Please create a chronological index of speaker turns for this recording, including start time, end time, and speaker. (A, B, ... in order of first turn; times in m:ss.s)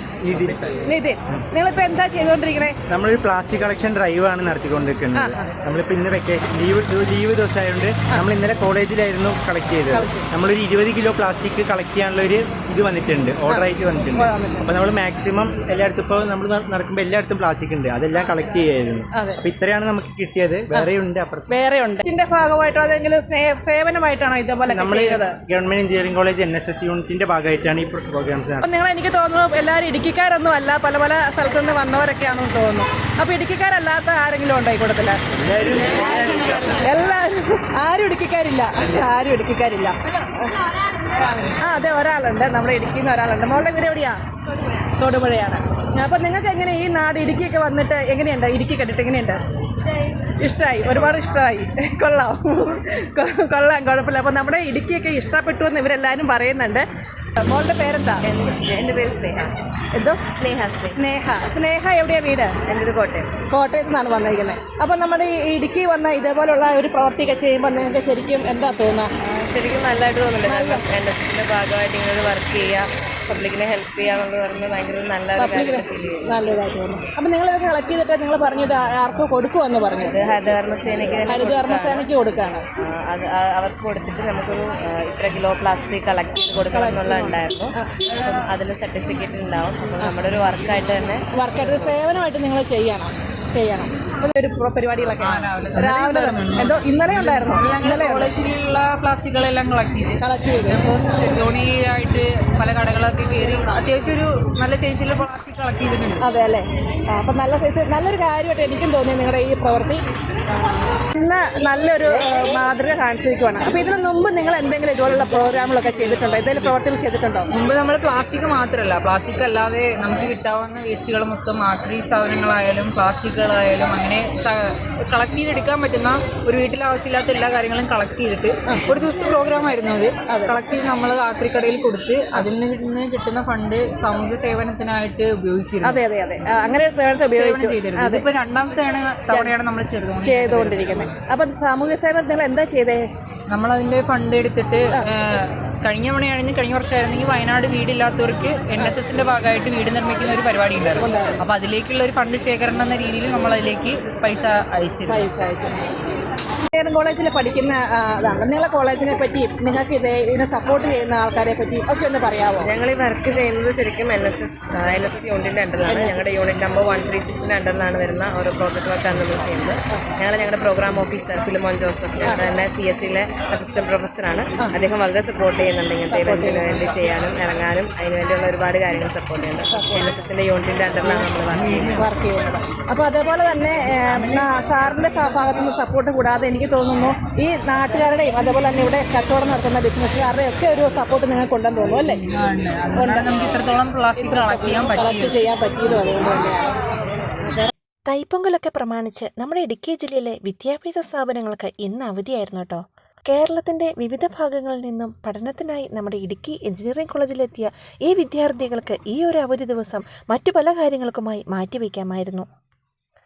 0:00.2-0:00.6 A
0:00.9-0:02.8 B
0:02.9-0:21.5 A
0:05.2-0:05.5 B
0:09.9-0:10.3 B
0:13.5-0:14.7 B
0:19.1-0:19.4 B
0:21.5-0:25.4 B
0:24.7-0:28.6 A
0:28.6-0:35.2 B
0:35.3-0:36.9 A
0:36.8-0:40.6 B
0:41.5-0:44.2 B
0:44.7-0:49.4 B
0:50.0-0:58.2 B
0:58.2-0:59.5 C
0:59.9-1:00.3 B
1:00.3-1:01.0 C
1:00.8-1:02.6 B
1:02.7-1:03.3 C
1:03.5-1:09.1 B
1:09.2-1:16.2 C
1:10.5-1:10.8 B
1:15.4-1:20.3 B
1:20.1-1:22.1 C
1:21.3-1:22.6 B
1:22.8-1:32.0 C
1:26.7-1:27.9 B
1:31.3-1:38.3 B
1:35.2-1:46.2 D
1:40.2-1:40.9 B
1:46.2-1:50.1 B
1:50.9-1:57.5 B
1:57.5-2:16.0 D
2:10.3-2:10.6 B
2:15.8-2:18.3 B
2:17.3-2:21.1 D
2:20.2-2:23.1 B
2:23.5-2:35.3 D
2:31.0-2:31.4 B
2:35.1-2:35.9 B
2:36.7-2:42.7 B
2:42.6-3:02.0 C
2:45.9-2:46.2 B
2:56.1-2:56.7 B
2:59.7-3:00.1 B
3:02.0-3:12.2 B
3:12.3-3:15.4 D
3:13.0-3:13.3 B
3:14.2-3:16.8 B
3:17.4-3:17.7 B
3:18.1-3:32.5 E